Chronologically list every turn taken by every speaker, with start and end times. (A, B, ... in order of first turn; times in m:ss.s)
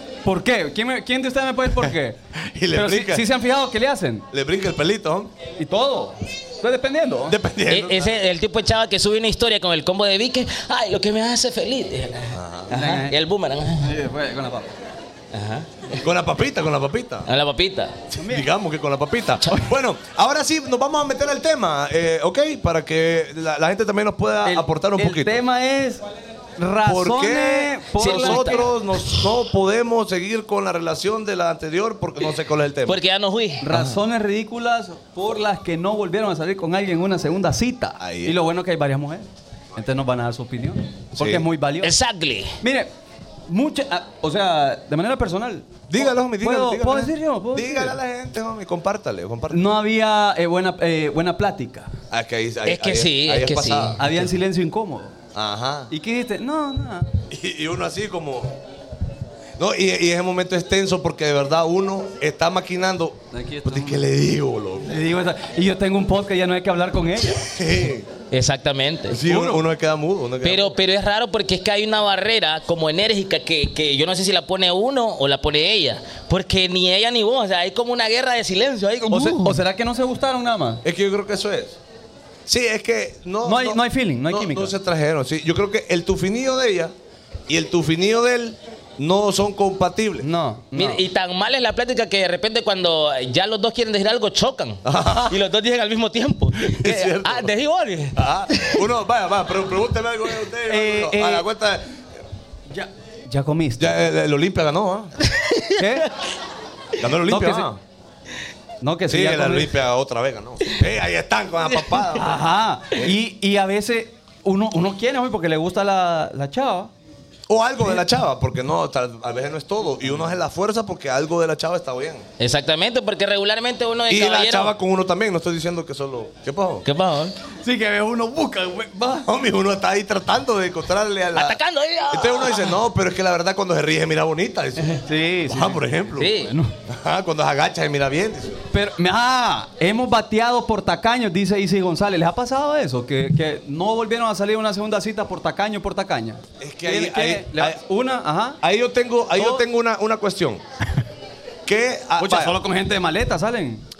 0:00.2-0:02.2 A
0:02.4-0:03.3 B
0:02.7-0:04.2 A
0:04.3-0:05.3 B
0:05.6-0:07.4 A
0:07.3-0:08.1 B
0:07.7-0:13.9 C
0:12.3-0:12.7 B
0:12.7-0:13.2 A
0:13.8-0:14.7 A
0:15.3-0:15.7 C
0:16.0-0:17.3 B
0:17.2-0:17.9 C
0:18.1-0:25.4 B
0:18.2-0:18.5 A
0:24.4-0:26.0 A
0:26.6-0:28.7 A
0:26.8-0:33.0 B
0:28.0-0:28.7 C
0:32.9-0:33.6 C
0:33.6-0:41.9 A
0:33.7-0:34.0 B
0:38.0-0:38.4 B
0:41.2-0:41.4 B
0:41.8-0:42.5 C
0:42.6-0:42.9 A
0:43.5-0:48.0 A
0:45.9-0:49.6 B
0:49.5-0:51.9 A
0:52.1-0:54.1 B
0:52.6-0:54.0 C
0:54.0-0:55.2 A
0:55.3-0:55.9 B
0:55.9-0:57.1 A
0:57.3-0:58.6 B
0:59.6-1:05.0 B
1:03.3-1:04.0 A
1:04.8-1:07.5 A
1:07.5-1:08.1 B
1:08.3-1:09.2 C
1:09.1-1:10.7 B
1:09.3-1:09.6 A
1:10.4-1:19.5 C
1:19.1-1:20.8 A
1:20.8-1:21.8 B
1:22.5-1:26.9 B
1:23.4-1:24.7 A
1:27.5-1:30.3 B
1:30.2-1:31.0 A
1:30.7-1:38.8 C
1:34.8-1:35.4 B
1:36.6-1:37.5 B
1:38.2-1:41.8 B
1:40.7-1:41.5 A
1:42.7-1:44.0 A
1:43.8-1:45.1 B
1:45.3-1:45.8 C
1:45.8-1:46.1 A
1:47.0-1:47.8 B
1:47.3-1:47.7 A
1:48.8-1:49.7 A
1:49.1-1:52.4 B
1:52.1-1:56.9 A
1:57.5-2:02.2 B
2:02.4-2:04.7 C
2:04.1-2:06.8 B
2:06.8-2:07.3 C
2:07.6-2:09.3 A
2:09.2-2:11.6 B
2:11.3-2:12.7 C
2:12.1-2:16.3 B
2:15.0-2:16.7 A
2:16.2-2:16.5 C
2:16.9-2:18.6 B
2:18.7-2:28.6 A
2:26.6-2:27.8 B
2:28.6-2:30.6 B
2:29.4-2:29.6 A
2:31.6-2:32.6 B
2:32.2-2:33.8 A